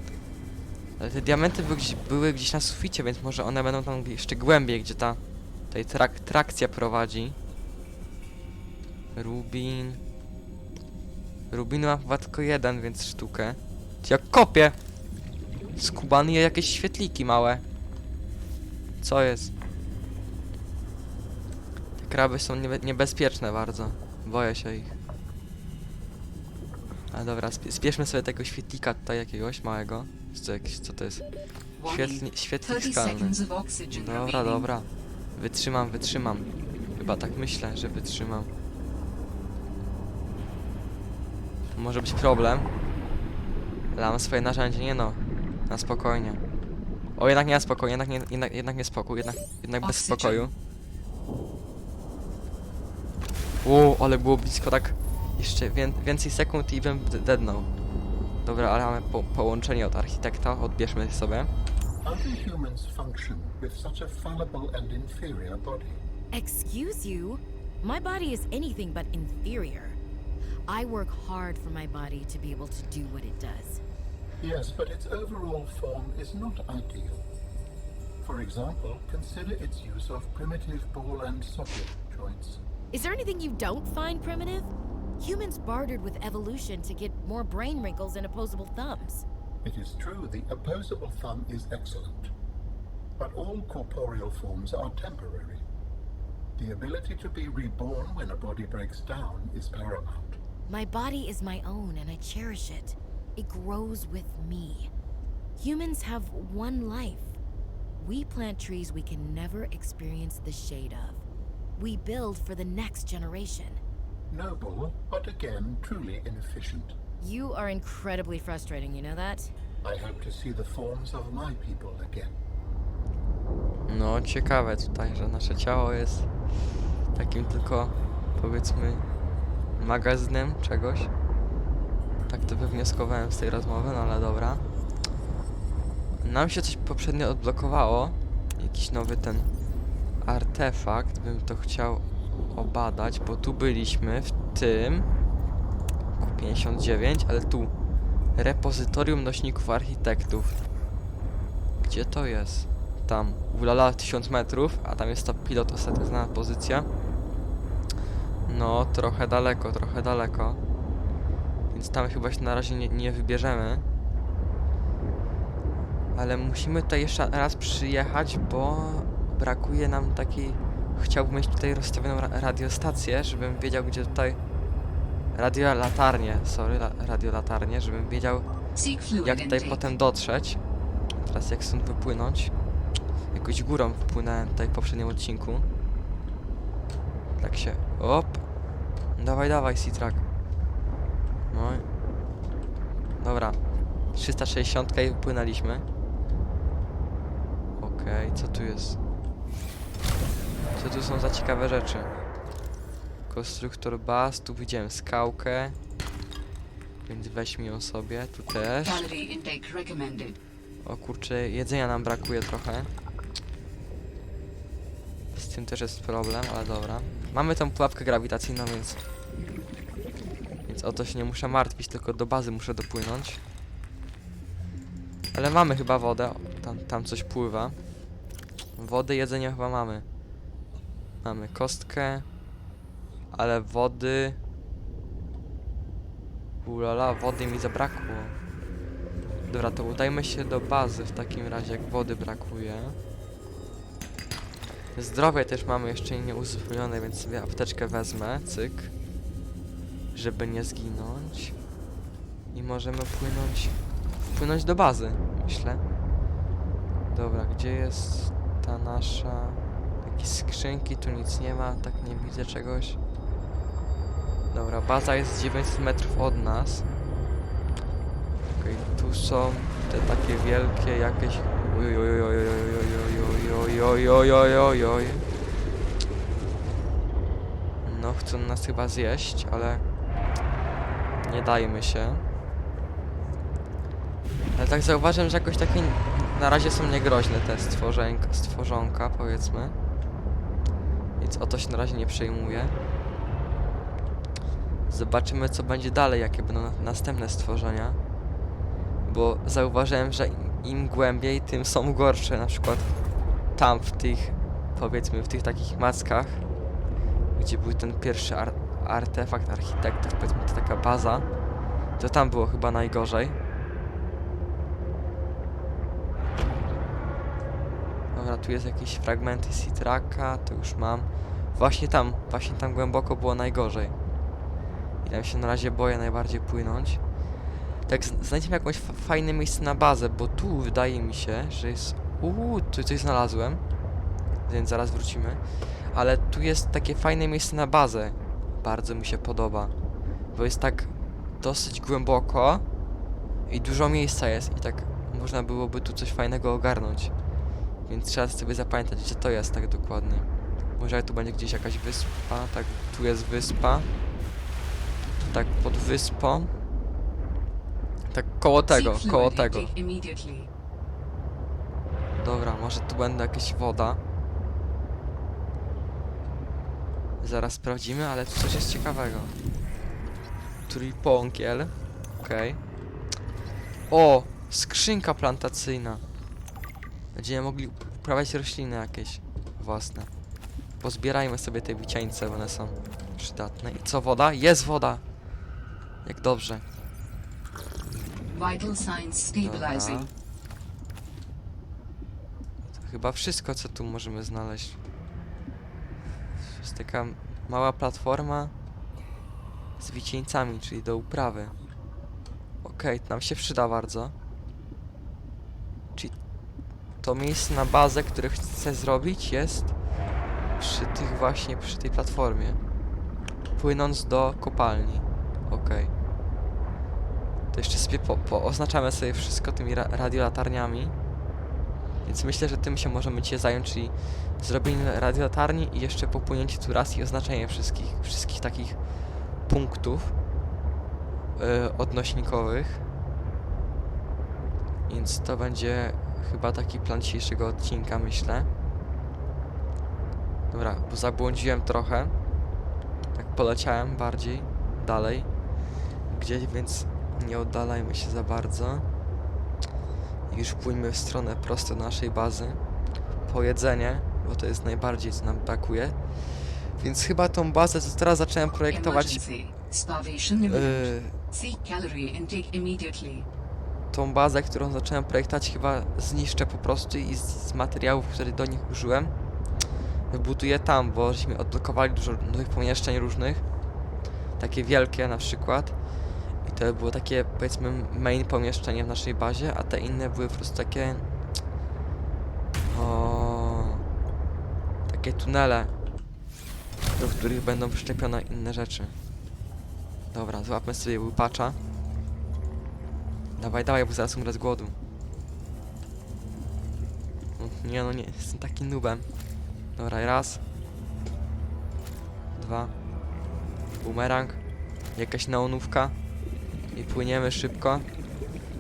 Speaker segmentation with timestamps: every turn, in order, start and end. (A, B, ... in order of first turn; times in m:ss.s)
0:01.0-0:07.4 A
0:09.2-0:10.0 A
0:11.5-0:14.8 A
0:15.8-0:17.6 A
0:19.0-0:19.5 A
0:22.0-0:24.9 A
0:27.1-0:31.3 A
0:31.8-0:34.7 B
0:31.8-0:33.4 A
0:33.9-0:38.5 A
0:41.8-0:42.7 A
0:43.9-0:46.4 A
0:47.2-0:50.5 A
0:49.8-0:50.5 B
0:53.6-0:57.7 A
0:58.4-1:01.5 A
1:02.0-1:06.0 C
1:06.3-1:10.0 D
1:10.7-1:13.8 D
1:14.4-1:17.3 C
1:18.2-1:22.6 C
1:22.9-1:29.2 D
1:29.6-1:32.3 C
1:33.2-1:35.6 C
1:36.6-1:40.4 C
1:40.7-1:44.9 D
1:45.6-1:47.4 D
1:48.0-1:51.2 D
1:51.8-1:53.8 D
1:54.3-1:57.0 C
1:57.2-1:59.5 D
1:59.8-2:02.4 C
2:03.9-2:06.3 A
2:07.2-2:09.1 A
2:09.8-2:11.1 A
2:12.3-2:14.6 A
2:16.2-2:19.5 A
2:20.2-2:25.1 A
2:26.2-2:27.7 A
2:28.4-2:30.6 A
2:31.8-2:36.9 A
2:38.5-2:40.6 A
2:41.7-2:43.8 A
2:46.2-2:54.4 A
2:55.3-2:58.5 A
2:58.8-2:59.9 B
2:59.2-3:00.6 A
3:01.2-3:02.5 A
3:03.3-3:05.7 A
3:07.4-3:08.4 A
3:09.2-3:10.2 A
3:11.5-3:11.8 A
3:13.2-3:13.6 A
3:14.1-3:15.8 A
3:17.8-3:19.0 A
3:20.8-3:22.1 A
3:23.3-3:25.8 A
3:27.1-3:29.0 A
3:28.8-3:30.4 B
3:30.8-3:32.9 A
3:35.3-3:39.0 A
3:40.7-3:43.4 A
3:45.3-3:47.8 A
3:48.8-3:50.1 A
3:51.2-3:52.3 A
3:53.3-3:54.4 A
3:56.6-3:58.4 A
3:59.5-4:03.0 A
4:05.0-4:08.9 A
4:10.1-4:11.6 A
4:12.5-4:13.8 A
4:14.3-4:15.8 A
4:17.1-4:23.0 A
4:24.5-4:26.9 A
4:28.6-4:35.3 A
4:37.8-4:39.8 A
4:41.2-4:42.2 A
4:44.6-4:49.8 A
4:51.2-4:52.8 A
4:54.9-4:58.0 A
4:59.1-5:02.9 A
5:03.6-5:06.4 A
5:07.4-5:11.3 A
5:12.0-5:13.4 A
5:18.1-5:24.0 A
5:25.0-5:27.0 A
5:27.9-5:33.6 A
5:34.5-5:39.7 A
5:40.3-5:42.6 A
5:43.5-5:47.1 A
5:47.9-5:53.9 A
5:55.3-5:56.5 A
5:58.1-5:59.7 A
5:58.7-6:00.5 B
6:02.2-6:04.0 A
6:07.2-6:09.4 A
6:10.7-6:12.6 A
6:13.9-6:16.0 A
6:17.2-6:20.1 A
6:20.8-6:25.0 A
6:26.0-6:26.6 A
6:28.3-6:30.1 B
6:29.4-6:30.1 A
6:32.6-6:34.8 A
6:36.4-6:38.5 A
6:39.8-6:41.5 A
6:42.6-6:44.1 A
6:47.0-6:49.7 A
6:50.6-6:52.6 A
6:53.6-6:55.9 A
6:57.5-7:00.9 A
7:02.1-7:08.8 A
7:09.5-7:10.1 A
7:11.4-7:12.8 A
7:14.9-7:18.5 A
7:20.5-7:22.1 A
7:23.2-7:25.3 A
7:26.1-7:28.8 A
7:30.3-7:32.6 A
7:33.3-7:39.2 A
7:38.7-7:43.3 B
7:40.4-7:41.1 A
7:43.9-7:49.1 A
7:50.1-7:53.4 A
7:54.4-7:55.8 A
7:56.4-8:01.0 A
8:02.7-8:03.8 A
8:04.9-8:05.7 A
8:07.0-8:09.0 A
8:10.1-8:11.6 A
8:13.4-8:14.8 A
8:17.4-8:19.1 A
8:19.8-8:20.4 A
8:22.4-8:22.7 A
8:23.8-8:24.4 A
8:25.0-8:26.0 A
8:26.7-8:27.9 A